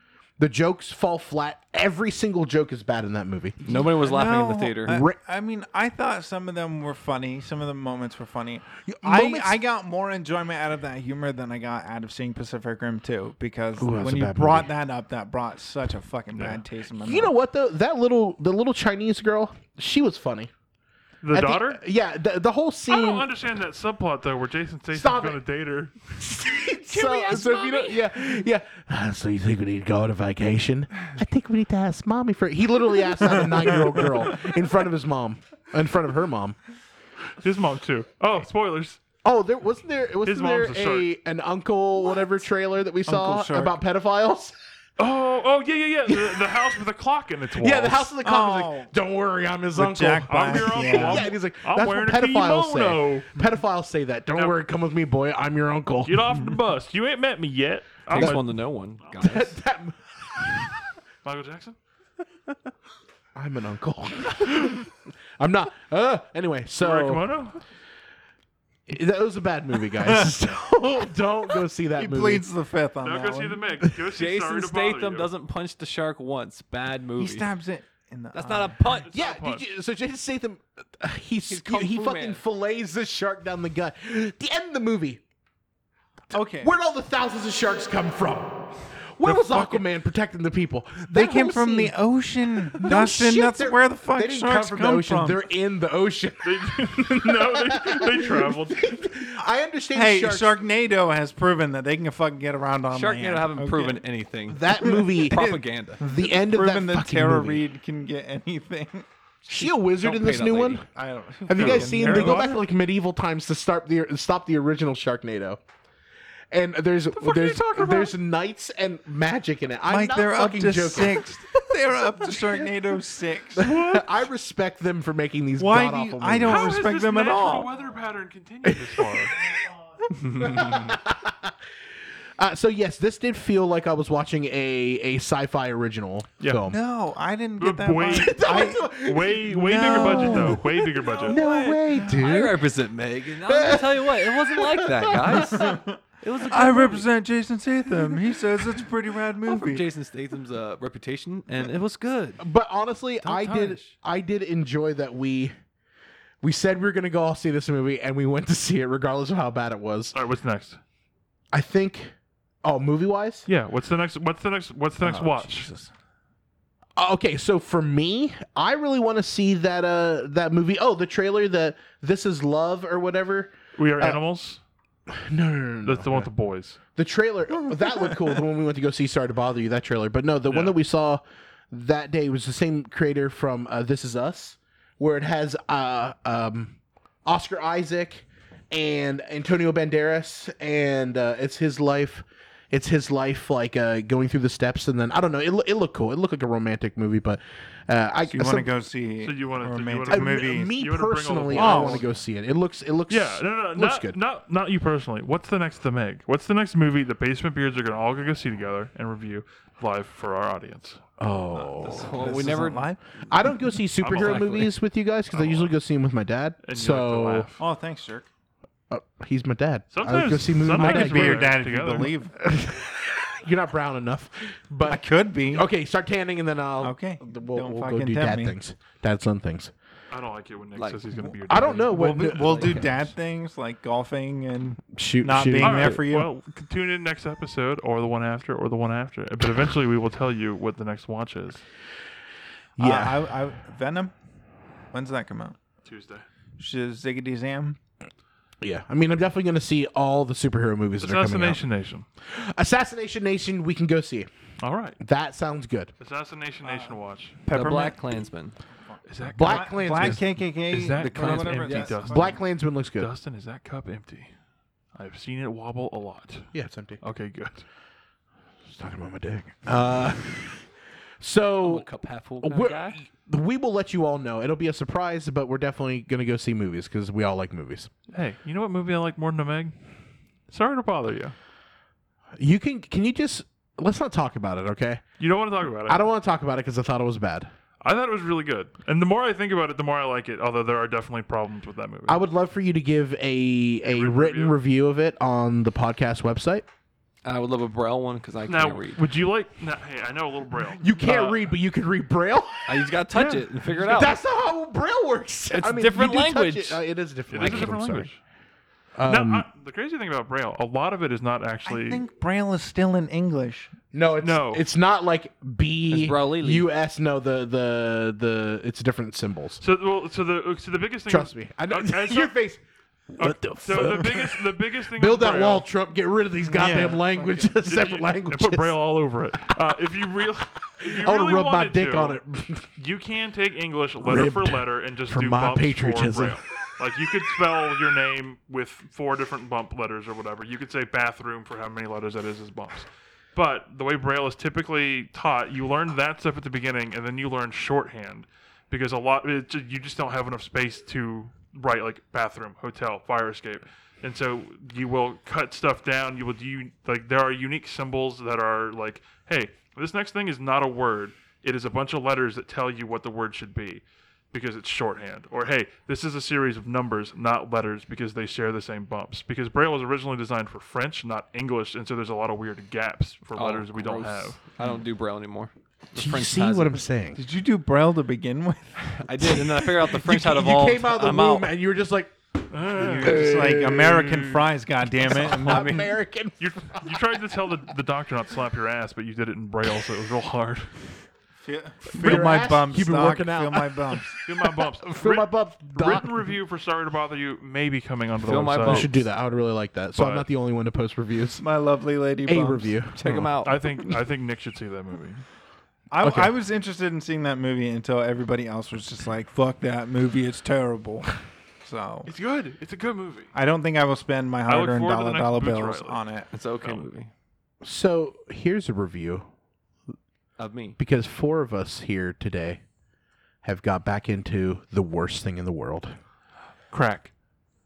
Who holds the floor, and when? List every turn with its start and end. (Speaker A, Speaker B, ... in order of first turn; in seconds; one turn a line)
Speaker A: 0.4-3.6
Speaker B: 3.6-17.3
Speaker C: 3.6-5.0
Speaker A: 4.9-5.2
Speaker A: 8.9-9.6
Speaker A: 13.8-14.7
Speaker D: 16.3-16.6
Speaker A: 17.0-20.5
Speaker D: 21.2-21.8
Speaker A: 21.3-23.3
Speaker D: 22.9-26.2
Speaker A: 24.9-25.4
Speaker A: 26.2-36.5
Speaker C: 26.8-28.0
Speaker B: 33.3-34.0
Speaker D: 37.4-39.0
Speaker A: 39.2-44.5
Speaker D: 40.2-41.1
Speaker B: 43.1-43.8
Speaker D: 45.0-48.1
Speaker A: 46.1-46.6
Speaker A: 47.6-56.5
Speaker B: 48.2-48.9
Speaker B: 49.8-51.3
Speaker D: 50.3-53.4
Speaker D: 56.0-59.0
Speaker C: 58.1-59.5
Speaker A: 59.2-60.7
Speaker D: 61.2-61.8
Speaker A: 63.3-67.2
Speaker D: 66.8-67.6
Speaker A: 68.9-72.4
Speaker B: 70.0-70.3
Speaker B: 71.9-73.6
Speaker D: 73.0-75.3
Speaker C: 74.1-77.5
Speaker B: 77.2-78.9
Speaker C: 78.3-79.1
Speaker D: 78.9-79.7
Speaker A: 79.1-85.2
Speaker C: 81.5-82.4
Speaker B: 86.3-86.7
Speaker A: 86.5-91.9
Speaker B: 89.2-89.8
Speaker B: 91.1-95.4
Speaker A: 92.7-100.6
Speaker D: 96.4-99.1
Speaker B: 99.9-104.0
Speaker C: 102.9-106.0
Speaker A: 104.5-107.6
Speaker B: 104.8-109.0
Speaker A: 109.5-110.8
Speaker C: 109.5-110.8
Speaker B: 110.9-112.5
Speaker A: 111.5-115.6
Speaker D: 111.5-112.6
Speaker A: 116.5-121.3
Speaker D: 117.1-118.1
Speaker B: 119.9-124.0
Speaker A: 122.2-122.7
Speaker A: 123.5-126.8
Speaker B: 125.6-127.7
Speaker D: 126.4-129.4
Speaker A: 128.6-129.3
Speaker C: 130.1-130.9
Speaker A: 130.3-131.5
Speaker A: 132.4-136.8
Speaker D: 136.4-136.7
Speaker B: 136.7-138.9
Speaker D: 137.6-141.4
Speaker A: 138.1-142.6
Speaker B: 139.5-142.3
Speaker C: 142.2-147.1
Speaker A: 143.4-145.7
Speaker B: 145.3-149.8
Speaker C: 149.5-152.4
Speaker A: 152.4-155.5
Speaker C: 153.2-153.9
Speaker A: 156.4-160.1
Speaker D: 160.1-160.8
Speaker A: 161.5-163.4
Speaker D: 163.5-165.7
Speaker A: 167.0-174.2
Speaker D: 173.8-174.6
Speaker A: 175.1-176.3
Speaker D: 175.8-176.8
Speaker A: 176.9-198.7
Speaker D: 180.5-180.8
Speaker B: 198.3-200.7
Speaker D: 199.2-202.0
Speaker A: 200.1-204.2
Speaker B: 201.5-202.0
Speaker D: 203.1-211.0
Speaker A: 211.2-212.2
Speaker B: 211.6-213.0
Speaker C: 211.8-212.9
Speaker A: 213.3-217.5
Speaker D: 214.0-214.7
Speaker C: 214.1-214.7
Speaker D: 215.3-215.7
Speaker D: 216.6-217.6
Speaker B: 217.6-218.3
Speaker A: 218.9-221.6
Speaker D: 219.9-222.2
Speaker B: 220.7-222.3
Speaker A: 222.4-229.7
Speaker B: 224.8-225.7
Speaker B: 226.8-228.5
Speaker D: 230.1-231.9
Speaker C: 230.8-231.2
Speaker A: 231.5-233.1
Speaker B: 231.8-236.3
Speaker C: 232.3-232.9
Speaker A: 234.9-236.0
Speaker D: 235.6-241.6
Speaker A: 242.8-243.3
Speaker B: 242.8-244.1
Speaker B: 244.9-245.6
Speaker D: 245.8-246.2
Speaker B: 246.6-247.8
Speaker A: 248.6-251.6
Speaker D: 251.0-252.0
Speaker A: 252.2-254.3
Speaker D: 254.6-255.0
Speaker A: 255.0-255.9
Speaker D: 256.0-257.4
Speaker B: 256.6-258.0
Speaker C: 257.5-258.6
Speaker B: 258.9-262.4
Speaker D: 259.1-262.4
Speaker A: 259.4-260.2
Speaker C: 261.0-262.0
Speaker A: 262.1-263.1
Speaker D: 262.9-264.3
Speaker D: 264.9-267.6
Speaker A: 266.5-267.0
Speaker A: 268.7-270.6
Speaker A: 271.2-271.9
Speaker C: 271.6-273.0
Speaker A: 272.4-277.9
Speaker D: 278.1-279.7
Speaker D: 280.5-281.3
Speaker A: 282.4-285.0
Speaker D: 285.2-286.0
Speaker A: 285.9-287.5
Speaker D: 287.8-292.2
Speaker A: 292.1-296.6
Speaker D: 293.9-294.6
Speaker C: 297.2-299.0
Speaker D: 298.5-301.5
Speaker A: 300.8-302.9
Speaker C: 302.7-304.2
Speaker D: 303.1-303.5
Speaker A: 303.8-308.1
Speaker C: 305.5-306.8
Speaker D: 307.3-308.2
Speaker C: 307.4-307.7
Speaker A: 308.9-309.5
Speaker D: 309.0-312.0
Speaker B: 311.6-313.7
Speaker A: 313.9-319.6
Speaker D: 314.2-314.6
Speaker C: 315.9-316.7
Speaker D: 319.6-322.3
Speaker A: 321.1-322.6
Speaker A: 323.1-328.8
Speaker D: 323.2-325.6
Speaker B: 326.5-327.5
Speaker D: 327.6-332.2
Speaker A: 330.8-332.7
Speaker D: 332.8-374.4
Speaker A: 334.0-336.4
Speaker C: 373.3-376.8
Speaker A: 375.9-377.2
Speaker B: 377.1-379.0
Speaker C: 378.9-381.5
Speaker A: 379.2-382.1
Speaker D: 382.5-383.6
Speaker B: 382.7-385.9
Speaker A: 382.8-384.3
Speaker A: 385.0-387.2
Speaker C: 385.4-385.8
Speaker D: 386.4-390.8
Speaker B: 391.4-394.2
Speaker A: 391.9-396.2
Speaker D: 394.2-398.9
Speaker C: 398.2-398.9
Speaker A: 398.6-401.4
Speaker D: 399.9-400.2
Speaker B: 401.4-402.7
Speaker A: 402.2-403.9
Speaker C: 402.9-403.6
Speaker D: 403.1-405.2
Speaker B: 405.9-412.1
Speaker A: 406.0-406.3
Speaker D: 412.1-413.3
Speaker B: 413.3-416.3
Speaker D: 414.4-416.0
Speaker C: 416.3-417.1
Speaker A: 417.6-419.3
Speaker C: 420.4-420.8
Speaker A: 420.8-422.6
Speaker A: 423.4-426.0
Speaker D: 426.7-427.1